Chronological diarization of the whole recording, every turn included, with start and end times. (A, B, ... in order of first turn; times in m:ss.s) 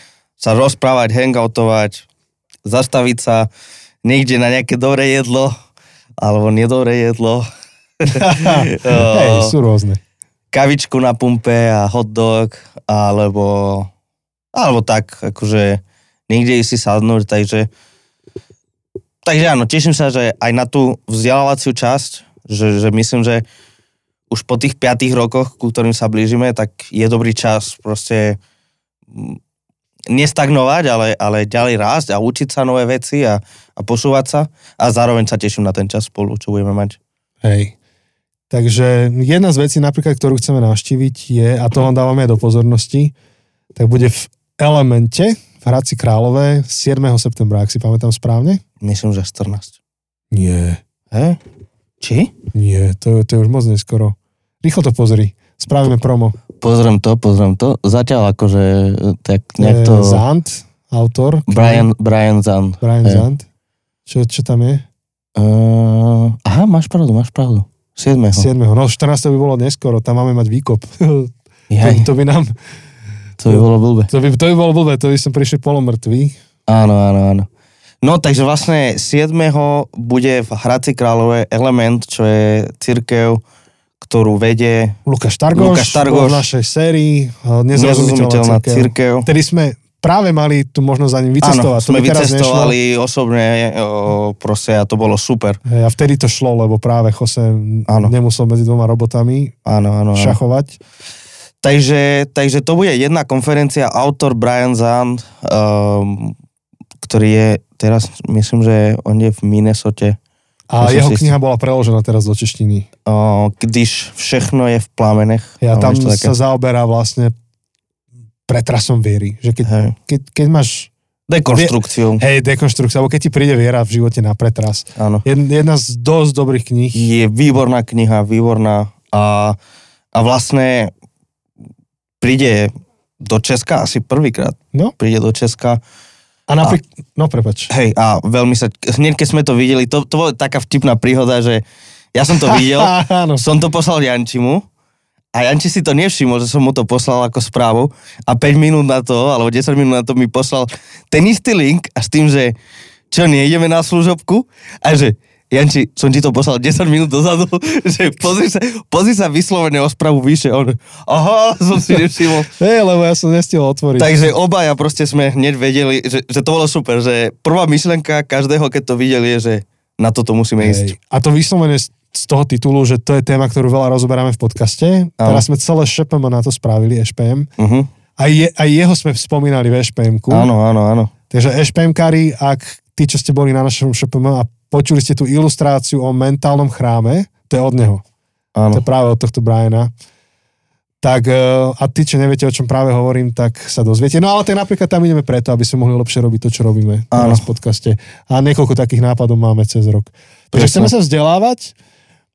0:00.4-0:02.1 A
0:02.6-0:03.5 A
0:04.0-0:05.5 A
0:06.2-0:07.5 A
0:08.0-0:09.6 A
0:08.1-0:10.0 B
0:10.5-0:13.9 A
0:14.5-0:17.7 A
0:19.2-0:23.4 A
0:24.3-0:28.4 A
0:29.1-0:29.4 A
0:30.1-0:37.0 A
0:37.4-0:37.8 B
0:38.5-0:43.1 B
0:43.8-0:48.6 B
0:48.8-0:49.8 A
0:50.3-0:50.8 B
0:51.1-0:51.4 A
0:52.0-0:52.3 A
0:52.5-0:56.4 B
0:56.6-1:00.2 A
0:59.6-1:01.9 B
1:01.5-1:03.3 A
1:02.8-1:03.5 B
1:04.1-1:04.8 B
1:05.4-1:08.5 A
1:08.3-1:12.6 B
1:11.7-1:12.1 A
1:13.4-1:14.1 A
1:13.5-1:16.4 B
1:16.7-1:17.5 A
1:18.0-1:23.4 A
1:24.0-1:25.0 A
1:25.1-1:32.8 B
1:25.5-1:26.5 A
1:27.8-1:29.3 A
1:31.4-1:35.6 A
1:35.7-1:39.6 B
1:37.9-1:38.1 A
1:39.6-1:40.4 A
1:40.2-1:40.8 B
1:41.6-1:46.4 A
1:47.0-1:50.2 A
1:50.7-1:52.9 B
1:50.8-1:51.3 A
1:53.1-1:56.4 A
1:55.6-1:57.3 B
1:58.5-2:00.9 B
1:59.6-1:59.9 A
2:01.3-2:02.2 A
2:01.5-2:07.0 B
2:05.0-2:05.3 A
2:06.9-2:09.6 A
2:10.2-2:10.9 A
2:12.2-2:15.8 A
2:16.5-2:17.7 B
2:17.7-2:21.6 A
2:22.1-2:24.6 A
2:22.4-2:23.4 B
2:25.4-2:32.6 A
2:33.1-2:42.5 A
2:42.5-2:44.2 B
2:44.0-2:50.9 A
2:50.6-2:57.5 B
2:55.2-2:55.4 A
2:57.6-2:57.9 A
2:58.2-3:00.5 B
3:00.3-3:01.1 A
3:01.3-3:08.0 B
3:08.6-3:08.8 A
3:08.7-3:09.9 B
3:11.0-3:21.7 B
3:17.1-3:17.4 A
3:20.5-3:20.9 A